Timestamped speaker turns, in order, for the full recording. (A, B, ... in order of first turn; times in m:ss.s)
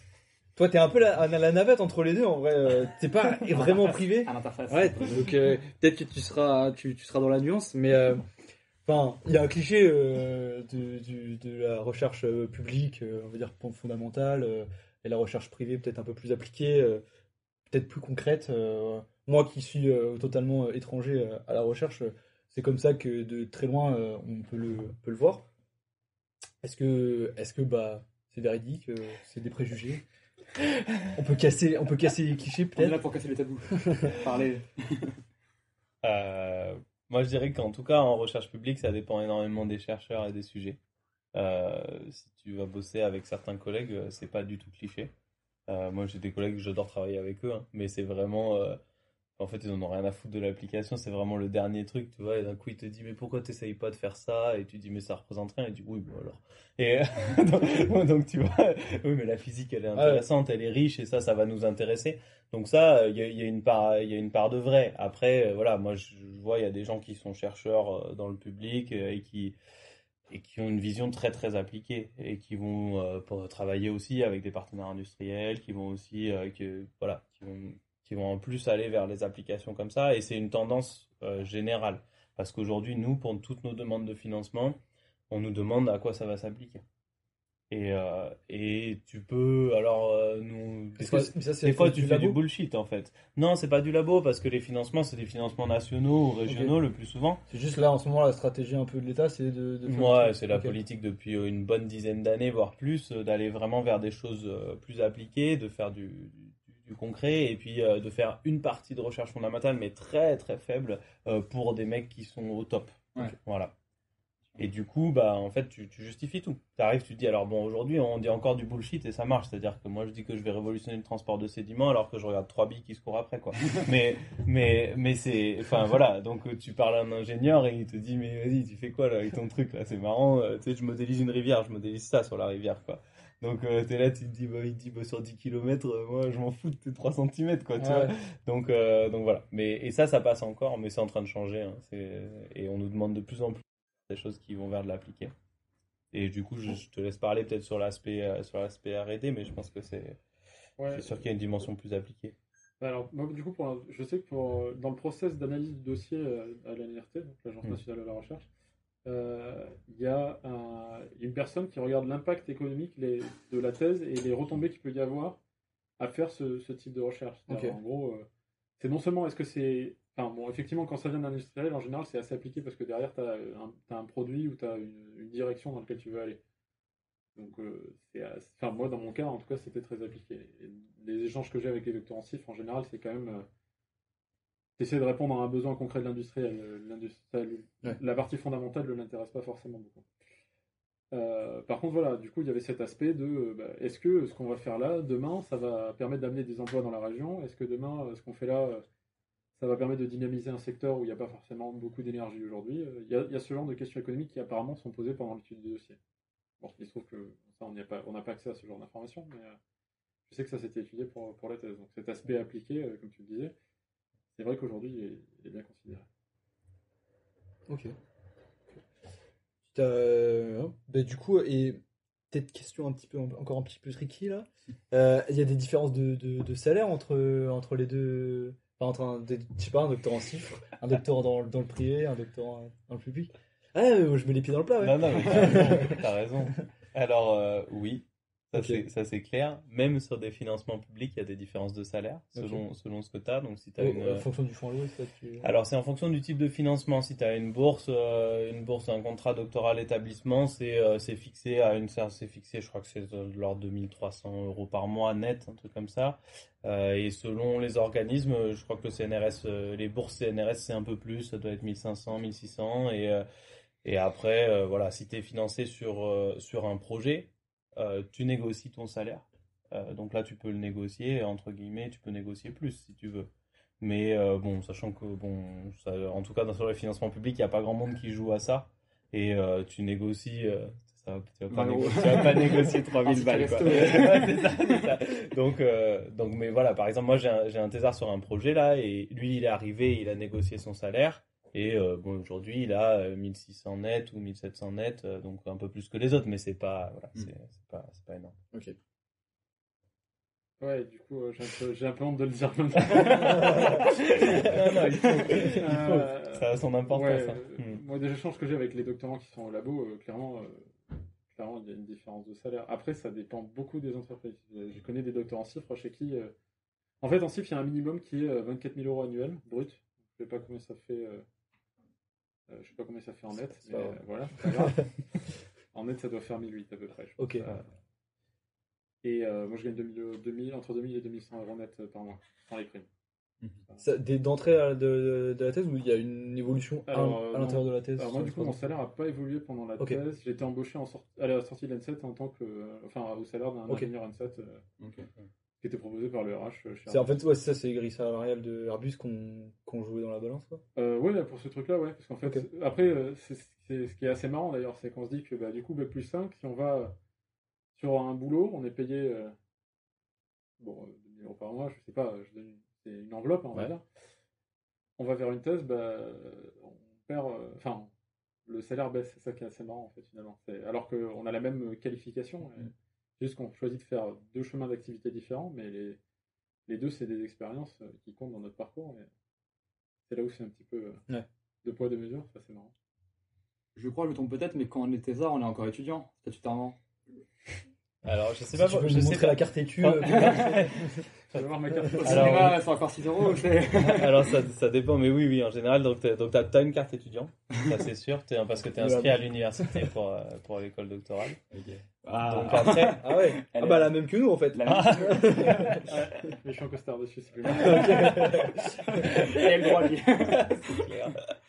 0:00.6-0:08.2 A
0:03.5-0:05.4 B
0:08.8-0:17.0 A
0:17.7-0:25.5 A
0:26.6-0:30.0 A
0:31.2-0:33.0 A
0:32.8-0:35.2 B
0:33.9-0:34.2 A
0:36.0-0:40.8 C
0:41.3-0:45.1 C
0:45.7-0:48.8 C
0:49.4-1:09.6 C
1:00.0-1:00.2 A
1:10.3-1:24.8 C
1:25.3-1:26.8 C
1:27.7-1:37.4 C
1:31.0-1:32.4 A
1:36.5-1:36.7 A
1:37.5-1:40.8 A
1:39.8-1:53.7 C
1:54.6-2:25.3 C
2:17.8-2:18.1 A
2:26.1-2:30.2 C
2:30.8-2:31.2 D
2:30.9-2:32.4 C
2:32.8-2:38.5 D
2:39.0-2:45.4 D
2:46.0-2:48.3 D
2:47.5-2:47.8 A
2:48.8-2:56.4 D
2:57.4-3:03.5 D
3:04.8-3:10.0 D
3:11.1-3:18.8 D
3:19.6-3:26.0 D
3:26.6-3:29.6 D
3:30.3-3:33.5 D
3:34.4-3:36.1 D
3:37.7-3:38.0 A
3:39.7-3:56.0 A
3:54.8-4:04.3 C
3:58.5-3:58.8 A
4:02.4-4:02.6 A
4:03.8-4:05.5 A
4:05.4-4:23.2 C
4:23.8-4:33.3 C
4:33.8-4:58.4 C
4:41.5-4:44.8 B
5:00.6-5:04.6 D
5:03.0-5:07.8 C
5:05.3-5:16.3 D
5:17.0-5:21.2 D
5:22.5-5:27.7 D
5:23.6-5:24.7 A
5:27.2-5:27.5 A
5:29.0-5:32.9 D
5:33.8-5:38.6 A
5:36.9-5:44.6 D
5:44.8-5:45.1 B
5:45.6-5:47.1 D
5:46.9-5:50.6 A
5:50.8-5:57.0 D
5:57.8-5:59.4 D
6:00.6-6:03.8 D
6:05.0-6:07.9 D
6:08.5-6:16.0 D
6:16.7-6:19.1 D
6:20.1-6:21.0 D
6:21.6-6:22.7 D
6:23.8-6:26.8 B
6:28.0-6:31.5 C
6:28.5-6:31.0 A
6:30.0-6:30.6 B
6:31.3-6:32.6 D
6:32.0-6:34.3 B
6:32.0-6:32.6 C
6:33.8-6:41.4 C
6:38.8-6:39.9 A
6:41.5-6:45.9 B
6:42.2-6:43.0 C
6:42.4-6:45.8 A
6:45.9-6:48.3 D
6:47.6-6:48.8 A
6:48.0-6:48.5 C
6:48.9-6:50.8 B
6:50.2-6:51.3 C